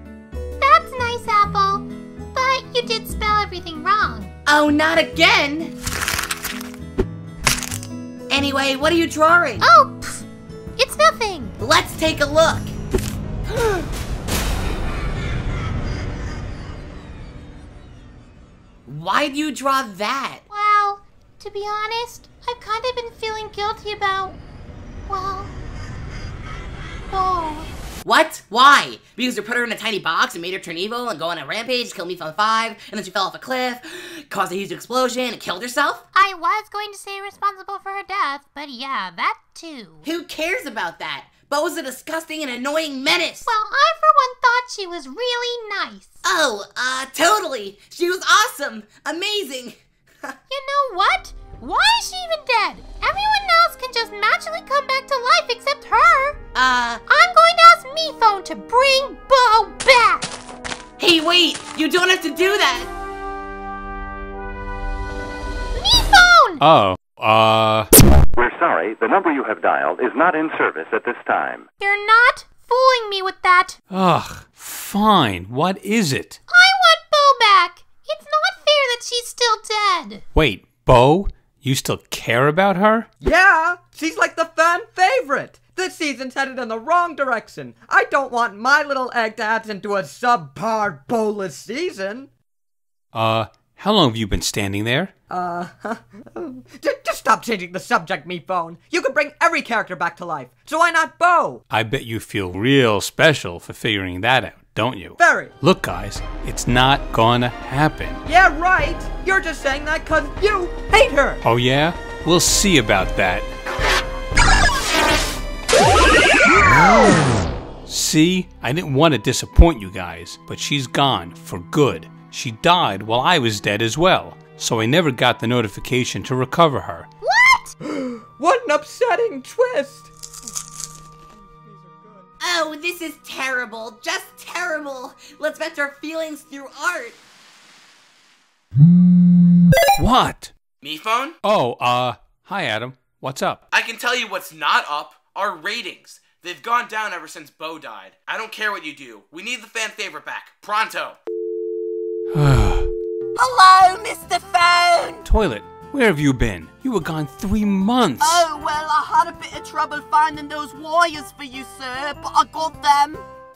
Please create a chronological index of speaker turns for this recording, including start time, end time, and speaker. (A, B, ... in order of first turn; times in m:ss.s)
0:00.6-0:01.8 A
0:02.4-0:04.3 A
0:04.5-0:05.8 B
0:08.3-0:09.6 B
0:09.6-0:10.2 A
0:10.8-0:11.6 A
0:11.6-0:12.7 B
0:18.9-0:20.4 B
0:20.5-0:24.4 A
0:25.1-0:25.5 A
0:27.1-0:27.7 A
0:28.0-0:36.0 B
0:36.1-0:40.0 A
0:40.0-0:43.5 B
0:43.5-0:46.2 A
0:46.2-0:49.8 B
0:50.5-0:56.4 A
0:56.5-0:57.0 B
0:57.1-1:00.3 A
1:01.0-1:02.9 B
1:05.8-1:06.6 A
1:06.6-1:07.9 C
1:08.4-1:11.7 D
1:11.8-1:13.8 A
1:13.9-1:16.4 C
1:16.5-1:20.2 A
1:20.3-1:23.1 C
1:23.2-1:32.3 E
1:33.1-1:35.1 C
1:35.3-1:41.6 E
1:41.7-1:48.2 C
1:45.2-1:45.5 E
1:48.3-1:51.4 E
1:51.4-1:53.5 C
1:57.9-2:07.1 C
2:07.8-2:10.1 E
2:12.4-2:17.2 B
2:20.0-2:20.5 C
2:20.8-2:21.4 F
2:21.4-2:23.6 C
2:23.7-2:31.2 F
2:32.3-2:32.9 C
2:33.4-2:35.2 G
2:35.2-2:38.5 C
2:38.2-2:43.2 G